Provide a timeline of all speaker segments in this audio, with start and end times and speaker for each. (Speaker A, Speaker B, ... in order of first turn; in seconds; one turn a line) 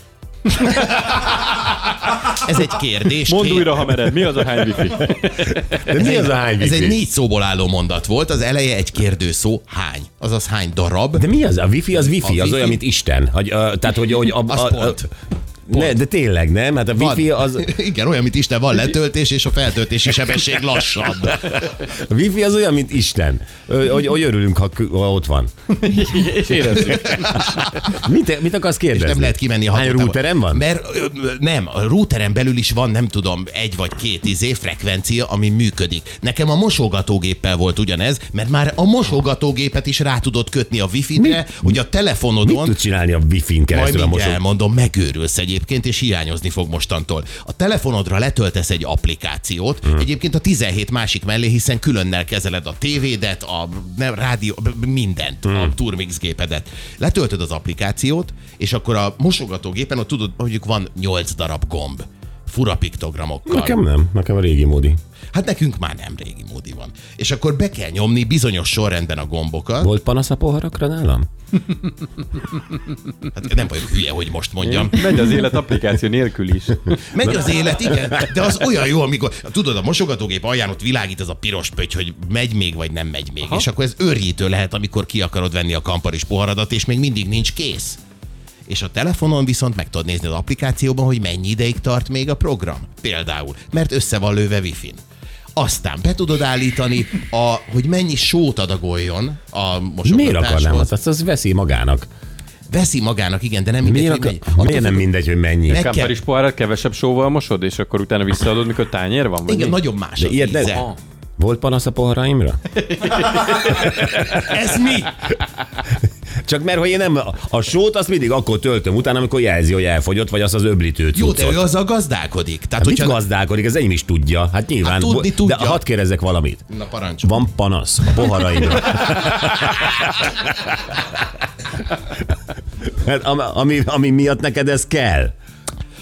Speaker A: 0.5-3.9
Speaker B: 3.2-5.9
Speaker C: 5.8-7.0
Speaker A: 5.9-11.3
Speaker C: 11.2-15.0
Speaker A: 12.1-12.8
Speaker A: 14.5-15.1
Speaker C: 15.7-17.7
Speaker A: 15.7-16.0
Speaker A: 17.0-21.6
Speaker C: 21.9-25.5
Speaker B: 25.8-27.8
Speaker A: 26.8-27.7
Speaker C: 27.9-30.6
Speaker A: 28.9-42.8
Speaker C: 41.2-41.7
Speaker C: 42.4-44.4
Speaker A: 43.7-63.8
Speaker C: 55.5-55.7
Speaker C: 63.5-65.0
Speaker A: 65.3-69.9
Speaker C: 69.8-71.3
Speaker A: 73.3-75.3
Speaker B: 74.6-77.7
Speaker A: 77.1-88.0
Speaker A: 88.7-95.0
Speaker A: 95.6-100.9
Speaker C: 100.0-102.1
Speaker A: 102.7-105.0
Speaker C: 103.8-105.8
Speaker A: 105.7-106.2
Speaker B: 105.7-109.8
Speaker A: 109.5-110.9
Speaker C: 110.2-110.8
Speaker C: 111.4-112.6
Speaker B: 112.9-113.9
Speaker A: 114.3-115.1
Speaker C: 116.5-121.6
Speaker A: 121.2-123.2
Speaker C: 122.8-126.6
Speaker A: 124.8-125.8
Speaker A: 126.7-127.4
Speaker C: 127.2-130.4
Speaker C: 132.8-135.3